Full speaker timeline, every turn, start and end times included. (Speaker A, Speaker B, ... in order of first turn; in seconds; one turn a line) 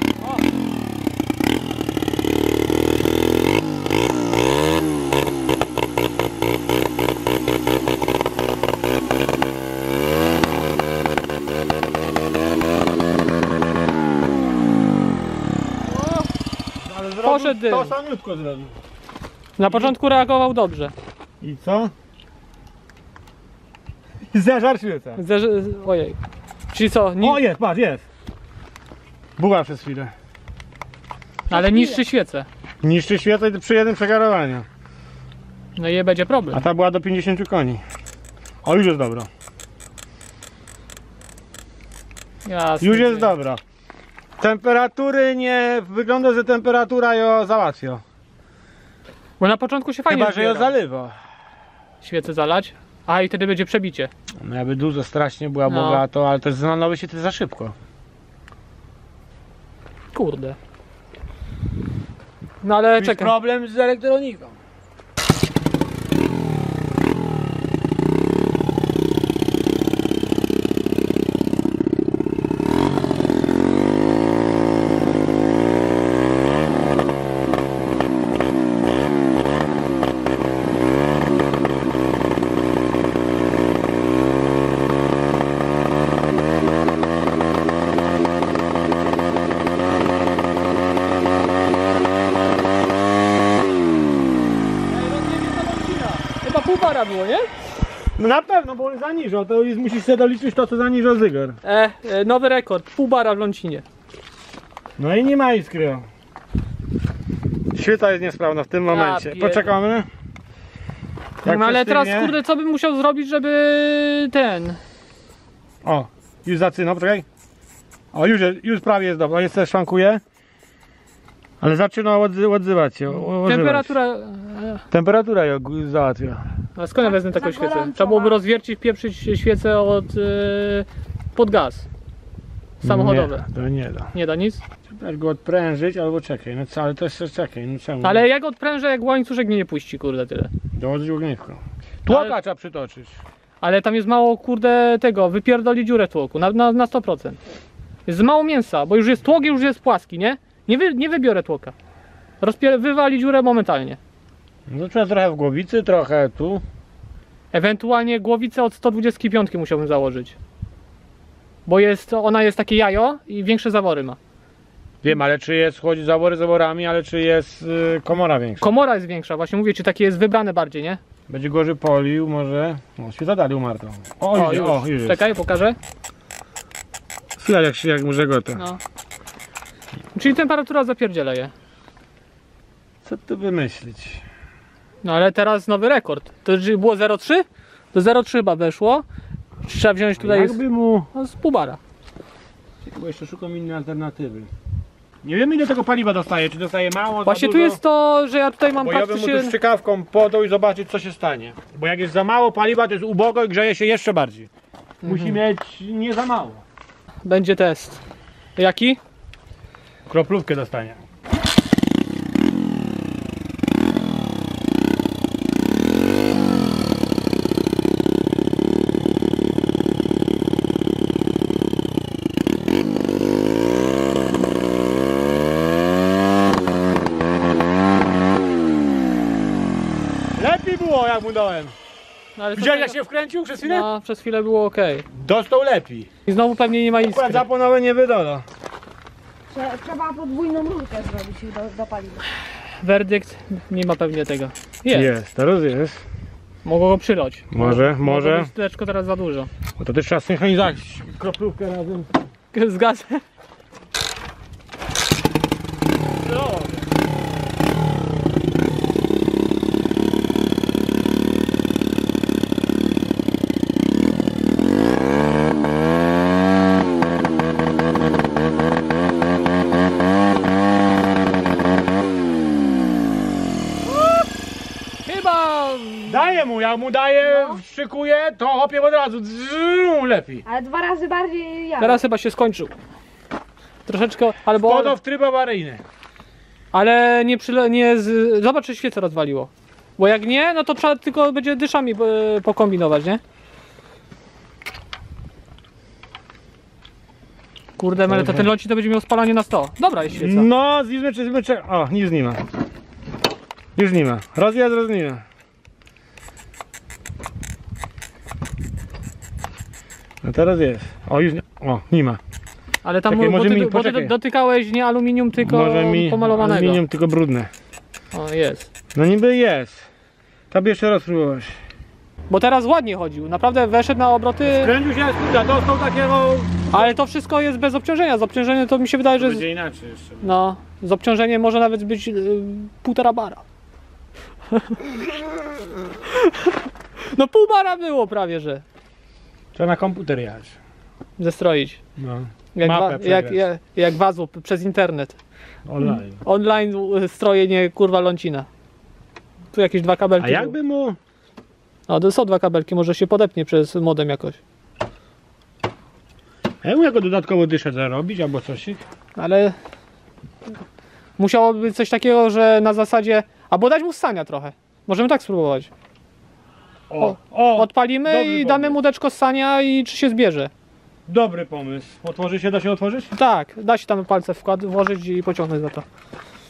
Speaker A: 16.8-18.8
Speaker B: 17.2-17.9
Speaker B: 19.6-20.9
Speaker A: 19.7-19.9
Speaker A: 21.4-21.9
Speaker A: 24.3-25.2
Speaker B: 25.2-26.2
Speaker B: 26.7-27.4
Speaker A: 27.2-28.0
Speaker A: 29.4-30.1
Speaker B: 31.5-32.5
Speaker C: 31.5-32.0
Speaker A: 32.8-34.7
Speaker B: 35.8-36.6
Speaker A: 36.5-37.8
Speaker A: 38.6-39.3
Speaker B: 42.5-43.3
Speaker A: 42.8-43.6
Speaker A: 44.4-48.0
Speaker B: 49.4-50.7
Speaker A: 50.1-51.2
Speaker B: 52.0-54.1
Speaker A: 54.4-57.8
Speaker B: 55.7-56.0
Speaker B: 60.1-60.6
Speaker B: 62.6-63.3
Speaker A: 62.9-64.6
Speaker B: 94.9-97.5
Speaker A: 98.2-101.6
Speaker B: 101.6-103.8
Speaker A: 105.0-106.1
Speaker A: 107.7-110.1
Speaker B: 108.9-109.7
Speaker A: 111.4-112.4
Speaker B: 111.4-114.8
Speaker A: 115.8-117.3
Speaker A: 118.1-120.2
Speaker A: 121.6-123.9
Speaker B: 123.4-124.8
Speaker A: 124.9-126.5
Speaker B: 126.8-131.9
Speaker C: 127.0-128.4
Speaker A: 132.8-134.1
Speaker B: 132.8-133.5
Speaker B: 134.1-134.6
Speaker A: 134.9-138.2
Speaker B: 138.0-140.5
Speaker A: 140.7-143.2
Speaker B: 142.1-142.4
Speaker B: 143.6-147.4
Speaker B: 148.1-151.7
Speaker B: 152.4-154.0
Speaker A: 154.7-156.6
Speaker B: 157.5-160.4
Speaker B: 161.7-164.2
Speaker A: 165.0-168.7
Speaker B: 168.6-171.0
Speaker A: 171.3-175.2
Speaker B: 174.3-175.8
Speaker A: 177.4-178.7
Speaker B: 178.6-178.8
Speaker B: 180.2-181.5
Speaker A: 183.0-184.2
Speaker B: 185.0-189.1
Speaker B: 189.6-190.6
Speaker A: 190.2-191.1
Speaker B: 191.1-191.8
Speaker A: 192.8-194.5
Speaker A: 195.2-197.8
Speaker B: 197.2-199.5
Speaker A: 198.8-204.5
Speaker B: 205.0-205.4
Speaker A: 205.0-206.6
Speaker B: 207.2-208.0
Speaker B: 208.6-209.0
Speaker A: 210.1-211.0
Speaker A: 230.3-231.8
Speaker B: 232.4-233.0
Speaker A: 232.6-233.9
Speaker B: 233.6-235.1
Speaker A: 235.1-236.1
Speaker B: 236.3-237.4
Speaker A: 237.1-238.5
Speaker C: 239.5-242.2
Speaker B: 242.8-245.1
Speaker A: 244.9-246.0
Speaker B: 246.6-249.5
Speaker A: 247.5-248.5
Speaker A: 249.8-252.1
Speaker B: 252.5-253.2
Speaker A: 256.3-256.8
Speaker B: 275.1-276.2
Speaker A: 276.1-280.4
Speaker C: 280.5-282.0
Speaker B: 281.8-282.7
Speaker B: 283.9-285.0
Speaker A: 284.5-285.8
Speaker B: 286.7-293.2
Speaker B: 297.8-300.5
Speaker A: 298.1-298.5
Speaker A: 300.1-302.4
Speaker A: 303.8-305.2
Speaker A: 310.2-312.2
Speaker B: 312.8-316.8
Speaker A: 313.1-314.1
Speaker A: 315.4-317.5
Speaker B: 318.1-318.7
Speaker A: 318.9-319.9
Speaker A: 320.5-321.6
Speaker B: 322.3-324.7
Speaker A: 324.4-326.9
Speaker B: 326.7-329.4
Speaker A: 329.2-330.3
Speaker B: 330.2-333.4
Speaker B: 334.5-334.8
Speaker B: 336.1-338.6
Speaker A: 339.6-340.6
Speaker B: 341.2-341.8
Speaker A: 342.0-343.4
Speaker B: 342.6-345.2
Speaker A: 345.6-346.2
Speaker B: 345.8-348.5
Speaker B: 349.5-350.6
Speaker A: 350.2-351.0
Speaker B: 351.9-354.4
Speaker A: 356.6-358.8
Speaker B: 359.2-359.6
Speaker B: 361.2-365.7
Speaker A: 366.9-368.8
Speaker B: 367.0-370.5
Speaker A: 371.1-373.1
Speaker B: 373.1-375.9